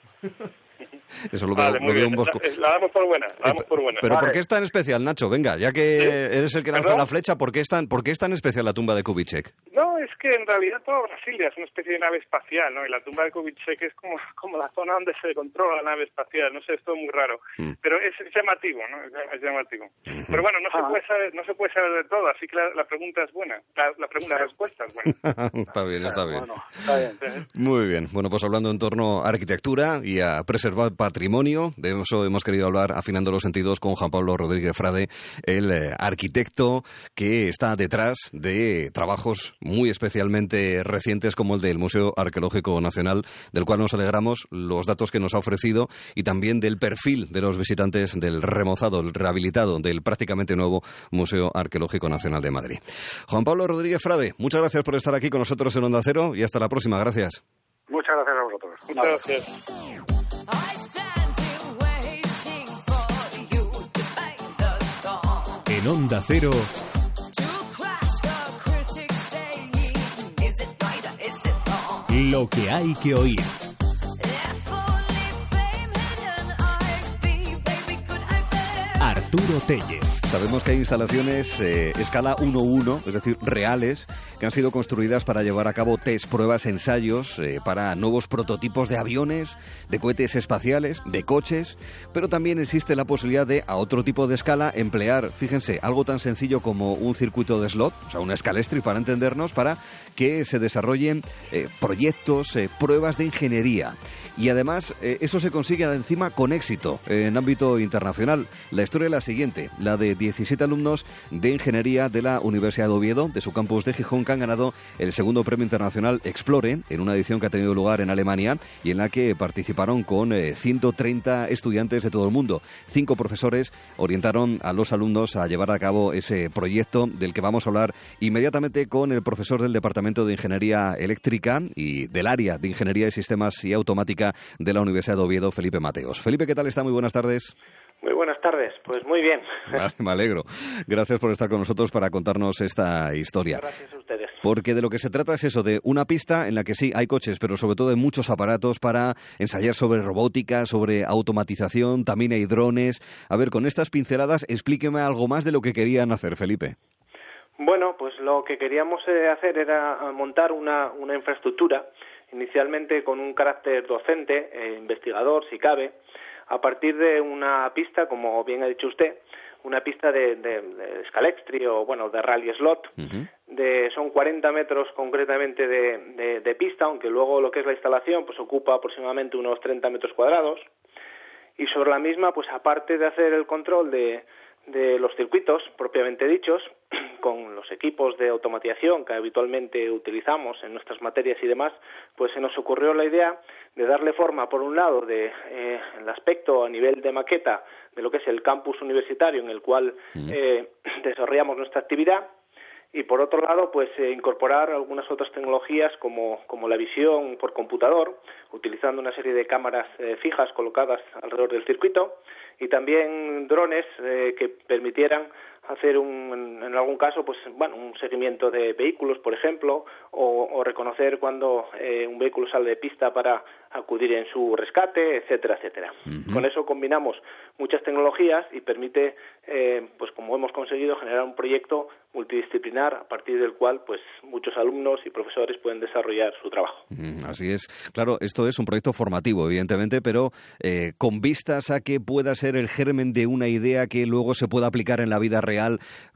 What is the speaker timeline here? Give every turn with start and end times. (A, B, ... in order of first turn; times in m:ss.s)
0:01.3-0:02.4 A
0:01.6-0:04.3 B
0:03.4-0:09.5 A
0:04.1-0:04.4 C
0:06.8-0:07.0 B
0:09.7-0:25.1 B
0:20.1-0:20.4 A
0:20.7-0:21.0 C
0:25.2-0:26.5 A
0:26.1-0:27.2 C
0:27.6-0:57.4 A
0:57.9-0:59.2 C
0:58.9-0:59.5 B
1:00.5-1:05.6 D
1:05.7-1:06.7 E
1:07.3-1:12.1 D
1:12.1-1:13.6 E
1:14.2-1:19.1 D
1:19.0-1:20.2 E
1:20.2-2:17.5 A
2:18.0-2:19.8 F
2:19.7-2:23.6 A
2:23.6-2:24.4 F
2:24.4-2:36.8 A
2:37.6-2:46.0 F
2:46.5-2:52.9 F
2:53.0-2:53.3 A
2:53.5-3:00.7 F
3:01.6-3:22.3 F
3:22.9-3:56.9 F
3:56.9-4:05.8 A